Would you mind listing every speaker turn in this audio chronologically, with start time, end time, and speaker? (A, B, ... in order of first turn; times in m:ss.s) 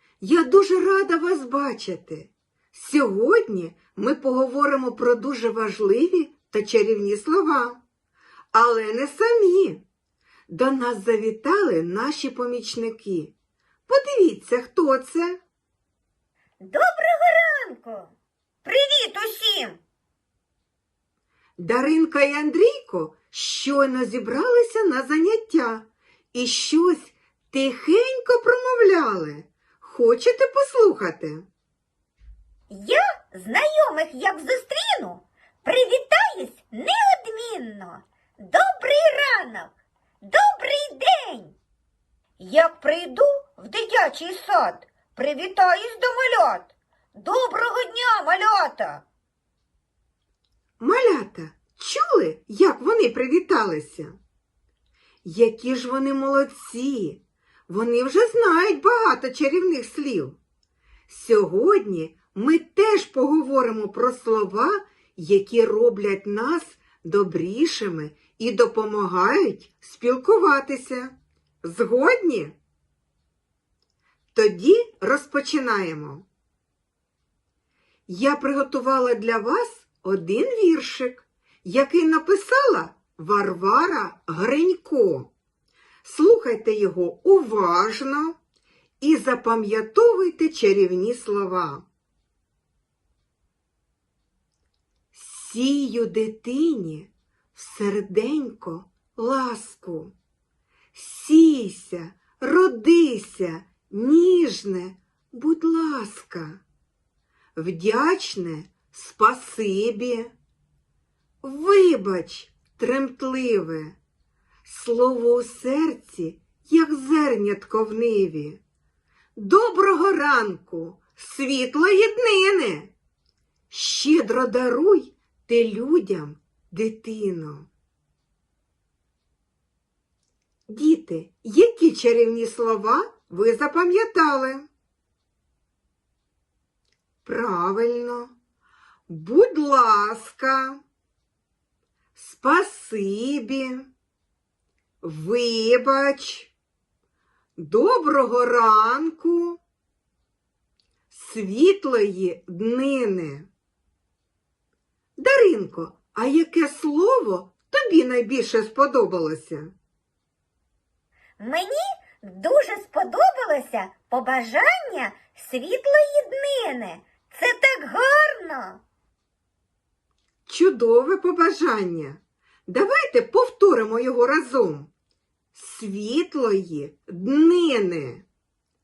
0:00.2-0:07.8 A
0:08.5-0:09.8 A
0:10.5-0:13.3 A
0:13.9-0:15.4 A
0:16.6-0:18.1 B
0:18.6-0:19.8 B
0:21.6-0:31.4 A
0:32.7-0:41.6 B
0:42.4-0:49.0 B
0:50.8-0:54.2 A
0:55.2-1:00.4 A
1:01.1-1:12.6 A
1:14.3-1:16.3 A
1:18.1-1:25.3 A
1:26.0-1:28.4 A
1:29.0-1:31.8 A
1:35.1-1:40.1 A
1:40.9-1:46.6 A
1:47.6-1:50.3 A
1:51.4-1:54.0 A
1:54.6-1:58.6 A
1:59.4-2:02.9 A
2:03.7-2:07.7 A
2:10.7-2:14.6 A
2:17.2-2:18.3 A
2:19.1-2:20.8 A
2:22.2-2:23.9 A
2:25.0-2:26.5 A
2:27.6-2:29.6 A
2:31.1-2:33.5 A
2:35.2-2:39.7 A
2:41.4-2:48.8 B
2:50.5-2:54.9 A
2:55.5-2:58.3 A